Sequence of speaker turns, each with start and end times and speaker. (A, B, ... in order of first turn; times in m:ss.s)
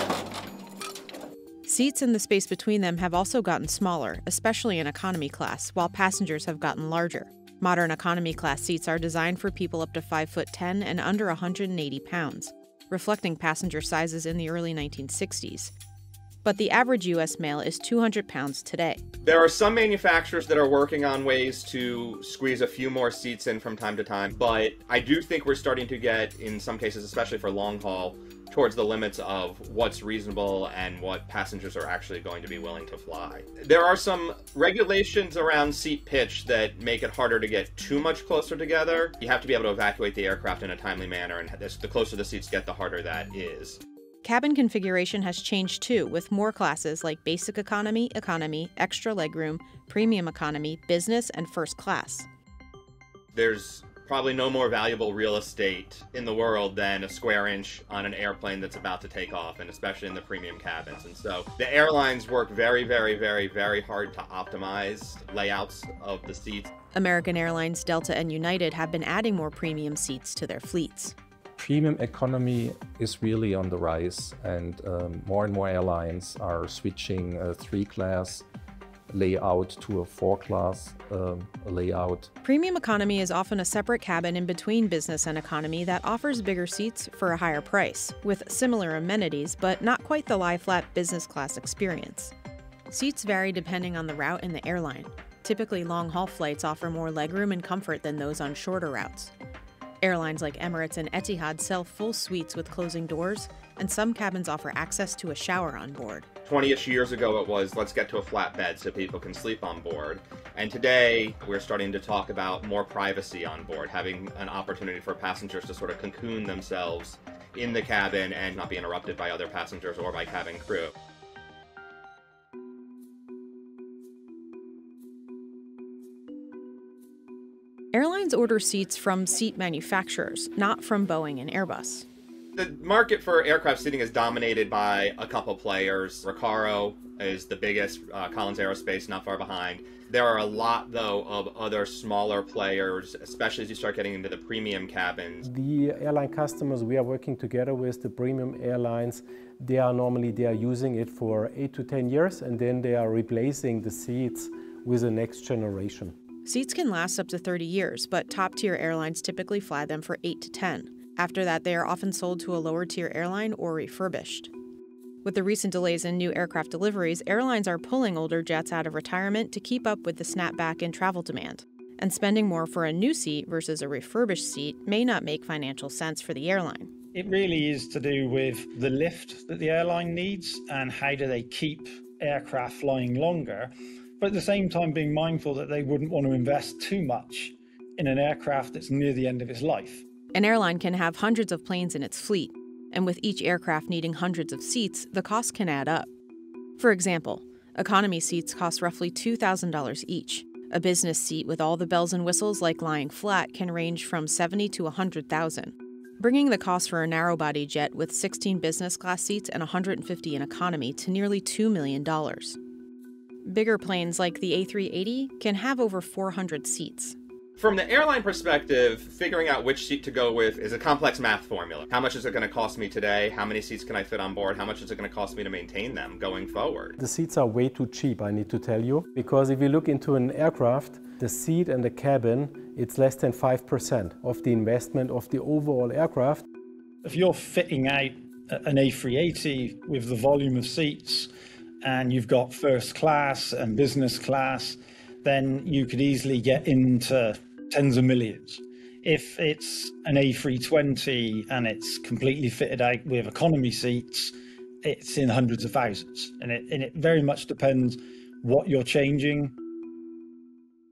0:01.6-0:15.7 A
0:16.4-0:19.0 A
0:19.2-0:43.8 B
0:44.2-0:52.3 A
0:53.3-1:06.7 B
1:06.9-1:11.1 A
1:11.6-1:18.4 C
1:19.1-1:22.3 C
1:22.4-1:32.3 A
1:32.9-1:39.3 A
1:40.0-1:46.3 A
1:46.4-2:00.9 B
2:07.9-2:12.0 A
2:12.6-2:25.4 B
2:25.4-2:36.1 D
2:36.4-2:44.5 A
2:45.2-2:56.9 A
2:57.1-3:10.0 E
3:10.3-3:16.1 A
3:16.8-3:32.6 A
3:33.4-3:37.2 A
3:37.6-3:47.0 B
3:47.0-3:56.4 D
3:57.0-4:01.3 E
4:01.8-4:19.6 E